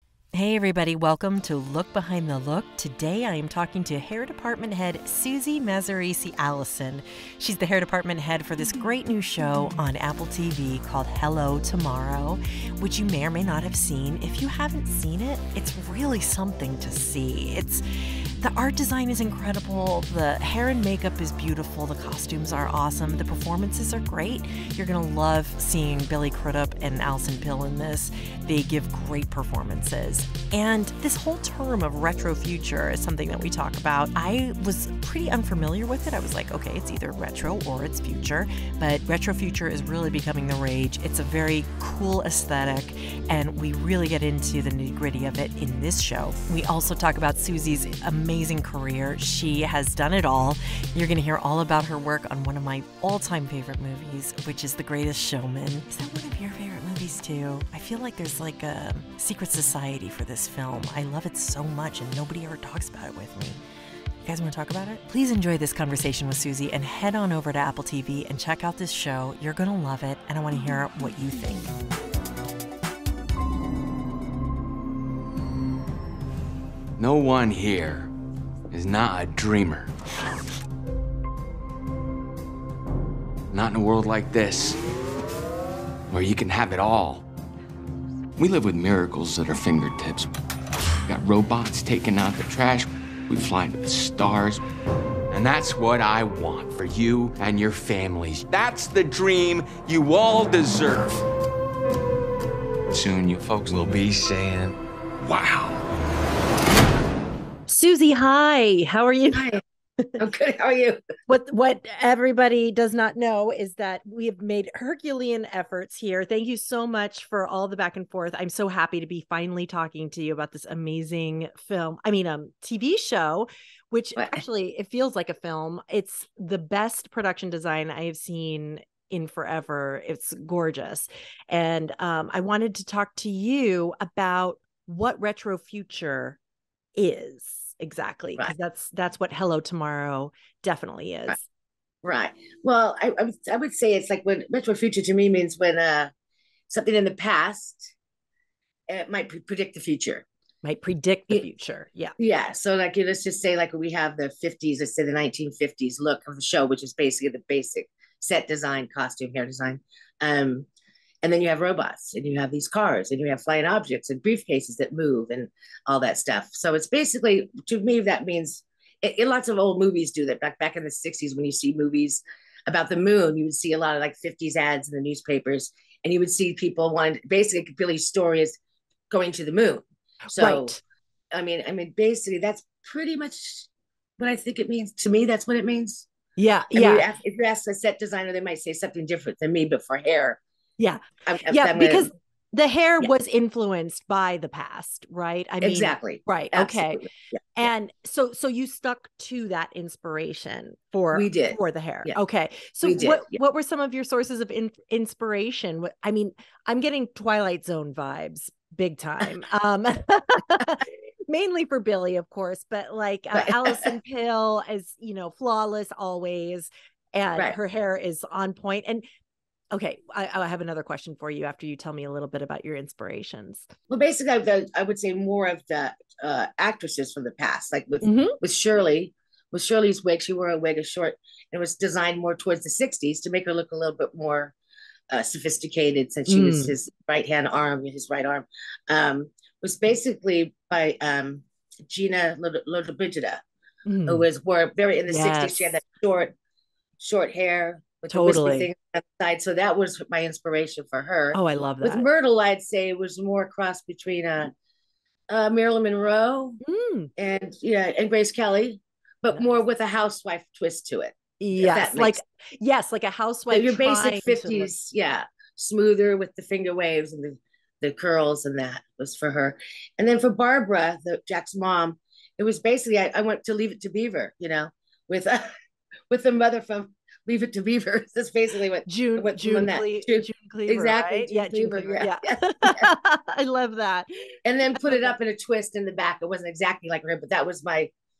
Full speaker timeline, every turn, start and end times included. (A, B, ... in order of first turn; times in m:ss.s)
0:00.3-0:17.8 A
0:18.4-1:03.6 A
1:04.2-1:11.7 A
1:17.0-1:18.1 B
1:18.7-1:19.9 B
1:23.5-1:24.8 B
1:26.1-1:27.2 B
1:28.4-1:30.3 B
1:31.1-1:34.6 B
1:35.3-1:41.2 B
1:42.9-1:45.8 B
1:47.7-1:50.1 A
1:49.3-1:49.6 C
1:50.2-1:51.0 C
1:51.3-2:16.4 A
2:04.2-2:04.4 C
2:17.0-2:21.4 A
2:22.0-2:26.1 C
2:26.7-2:27.9 C
2:28.9-2:30.2 C
2:30.6-2:32.2 A
2:32.2-2:40.7 C
2:41.2-2:58.6 C
2:59.1-3:00.8 C
3:00.3-3:00.8 A
3:01.3-3:06.1 C
3:06.4-3:07.0 A
3:06.7-3:10.4 C
3:10.8-3:39.0 A
3:11.2-3:12.1 C
3:15.6-3:17.1 C
3:21.1-3:22.2 C
3:22.8-3:23.4 C
3:33.3-3:33.9 C
3:39.7-3:43.7 A
3:43.9-3:54.5 C
3:48.0-3:48.4 A
3:55.1-4:03.4 C
3:56.3-3:56.7 A
4:03.8-4:04.2 A
4:04.1-4:06.3 C
4:05.1-4:05.8 A
4:07.0-4:14.5 C
4:08.1-4:08.7 A
4:11.3-4:12.0 A
4:15.3-4:16.6 C
4:16.6-4:17.1 A
4:17.2-4:22.2 C
4:21.4-4:24.7 A
4:23.5-4:35.5 C
4:36.1-4:42.9 C
4:38.8-4:45.1 A
4:44.4-4:47.9 C